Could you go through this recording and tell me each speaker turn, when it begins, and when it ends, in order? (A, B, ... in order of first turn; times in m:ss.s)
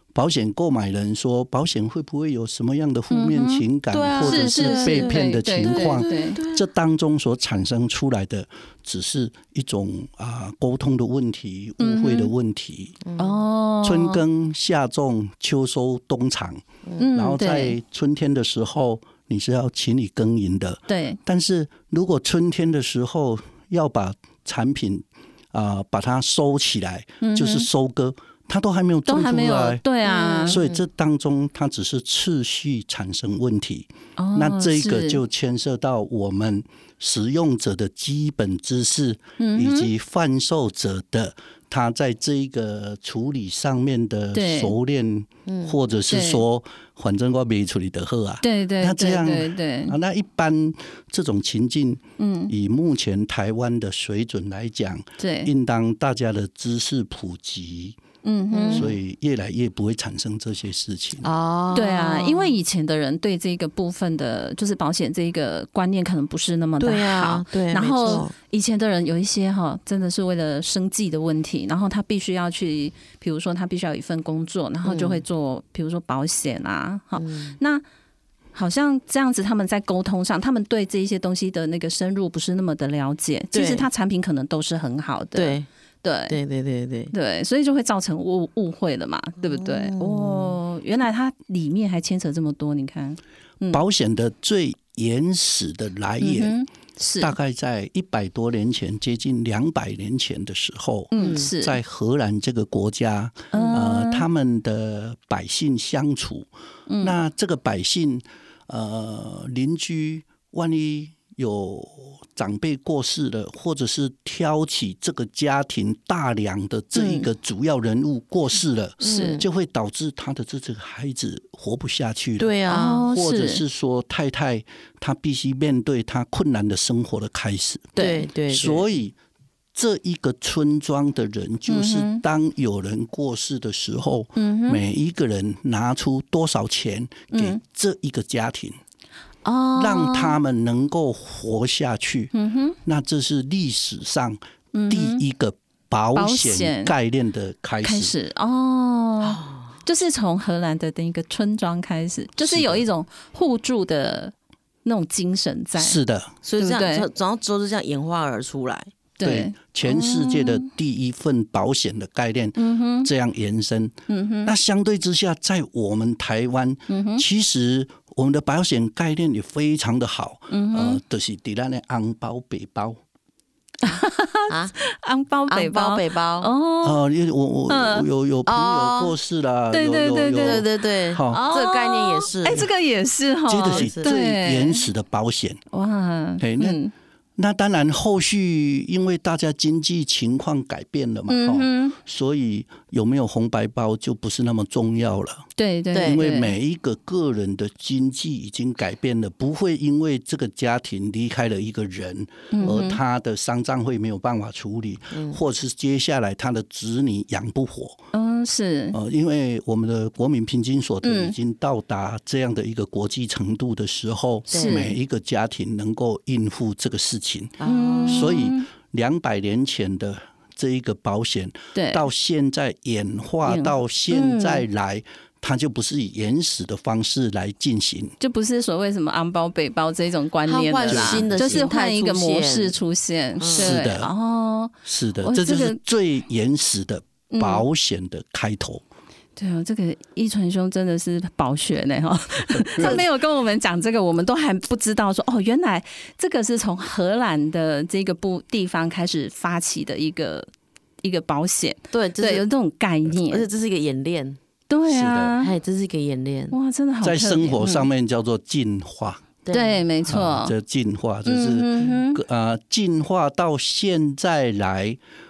0:00.1-0:13.0 A
0:03.1-0:06.4 B
0:03.9-0:06.6 C
0:11.8-0:12.3 B
0:13.0-0:13.4 C
0:13.2-0:14.2 B
0:13.8-0:29.8 A
0:17.0-0:17.8 B
0:20.9-0:21.2 B
0:27.2-0:27.7 B
0:29.1-0:30.6 B
0:30.1-0:30.8 C
0:30.4-0:58.0 A
0:34.2-0:35.2 B
0:39.4-0:39.9 B
0:44.3-0:44.7 B
0:45.5-0:45.8 C
0:46.1-0:46.4 B
0:48.4-0:50.0 B
0:52.2-0:52.5 B
0:55.2-0:55.5 B
0:58.2-0:58.9 B
0:58.5-0:58.9 C
0:58.7-1:01.3 A
1:01.2-1:02.6 C
1:01.7-1:17.8 B
1:06.8-1:08.3 C
1:14.8-1:15.2 C
1:17.2-1:17.6 C
1:18.6-1:26.4 B
1:23.5-1:23.9 C
1:25.4-1:25.7 C
1:26.3-1:27.1 C
1:27.1-1:33.8 B
1:29.4-1:30.6 C
1:33.7-1:36.6 A
1:36.2-1:37.3 B
1:37.2-1:46.5 A
1:41.1-1:41.8 B
1:41.2-1:41.5 C
1:43.5-1:43.8 C
1:43.5-1:44.2 B
1:46.9-1:47.2 B
1:47.0-2:08.0 A
1:57.0-1:57.3 C
1:59.0-1:59.4 C
1:59.0-1:59.4 B
2:02.4-2:03.0 C
2:02.7-2:03.6 B
2:08.0-2:08.2 B
2:08.0-2:08.8 C
2:08.5-2:09.2 A
2:09.8-2:18.8 A
2:11.7-2:12.2 B
2:14.4-2:14.8 B
2:17.3-2:17.6 B
2:19.4-2:20.4 B
2:19.8-2:22.3 A
2:22.3-2:22.8 B
2:22.8-2:28.1 A
2:24.7-2:25.2 B
2:26.2-2:26.9 B
2:27.8-2:34.3 B
2:29.2-2:29.7 C
2:32.4-2:32.8 A
2:34.8-2:36.0 B
2:35.8-2:36.3 A
2:36.4-2:38.9 C
2:36.6-2:37.1 B
2:39.2-2:40.7 B
2:39.2-2:53.0 A
2:42.6-2:43.1 B
2:44.1-2:44.5 B
2:46.9-2:47.2 B
2:50.5-2:51.0 B
2:53.8-2:57.0 B
2:54.5-2:54.7 C
2:55.5-2:56.5 C
2:56.8-3:01.4 A
2:57.7-2:58.1 B
2:58.5-2:59.1 C
2:59.7-3:00.6 B
3:00.3-3:02.7 C
3:01.3-3:04.9 B
3:03.5-3:05.6 A
3:03.6-3:04.1 C
3:05.7-3:06.9 B
3:06.4-3:06.8 A
3:07.4-3:15.5 A
3:11.3-3:12.0 B
3:15.6-3:16.6 B
3:15.9-3:16.2 C
3:16.0-3:28.0 A
3:22.5-3:23.0 B
3:25.1-3:25.4 C
3:28.1-3:29.0 B
3:28.9-3:48.2 A
3:31.0-3:31.4 B
3:34.5-3:34.9 B
3:34.5-3:34.8 C
3:37.6-3:38.3 C
3:37.6-3:38.7 B
3:41.8-3:42.0 B
3:43.5-3:44.6 B
3:48.2-3:55.8 B
3:50.5-3:52.8 C
3:50.9-3:51.7 A
3:53.4-3:53.7 C
3:53.5-3:54.1 A
3:54.8-3:58.8 A
3:57.3-3:57.6 B
3:59.4-4:10.5 B
4:11.0-4:13.5 B
4:11.9-4:12.4 C
4:13.2-4:14.4 C
4:14.7-4:15.5 B
4:14.9-4:15.4 A
4:15.4-4:16.6 C
4:16.5-4:17.9 B
4:17.0-4:19.3 A
4:19.4-4:19.8 C
4:19.5-4:20.5 B
4:20.1-4:25.0 A
4:21.3-4:22.2 B